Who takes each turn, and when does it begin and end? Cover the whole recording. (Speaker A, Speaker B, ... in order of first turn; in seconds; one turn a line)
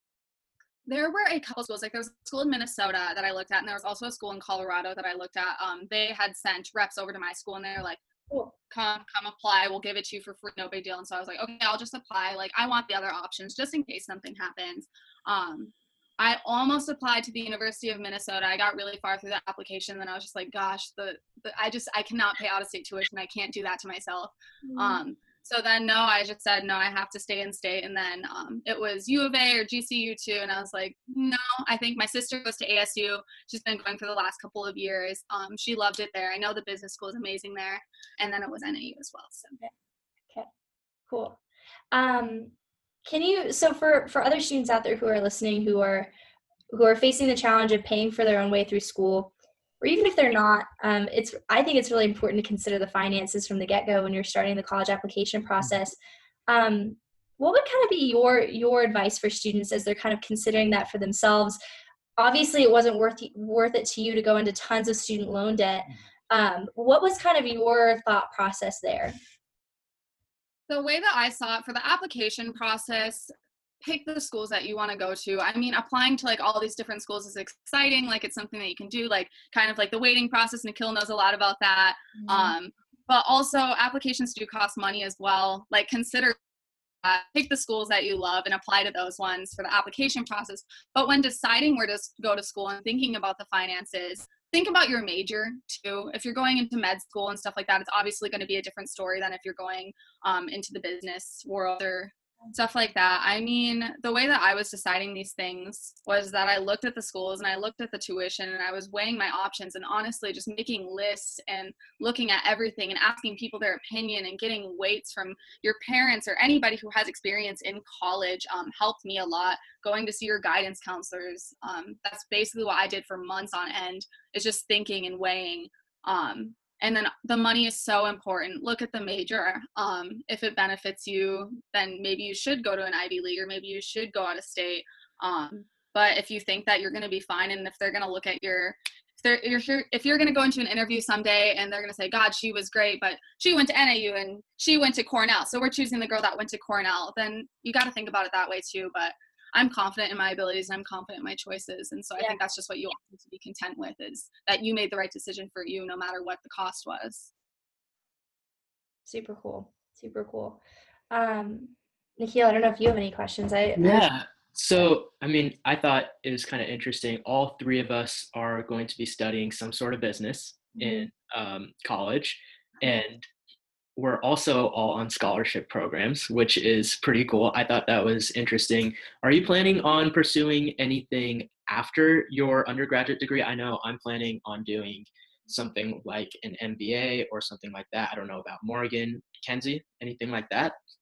Speaker A: 0.9-8.0
Speaker A: 8.7-39.6
Speaker B: 24.6-25.0
Speaker B: 41.1-41.4
Speaker B: 41.9-42.5
Speaker B: 43.0-46.1
Speaker B: 46.7-56.0
Speaker B: 56.5-61.6
Speaker B: 62.2-69.2
Speaker A: 70.7-86.4
Speaker B: 82.2-82.5
Speaker A: 87.0-157.3
Speaker B: 159.1-164.1
Speaker C: 163.8-173.3
Speaker B: 170.8-171.1
Speaker C: 174.0-190.8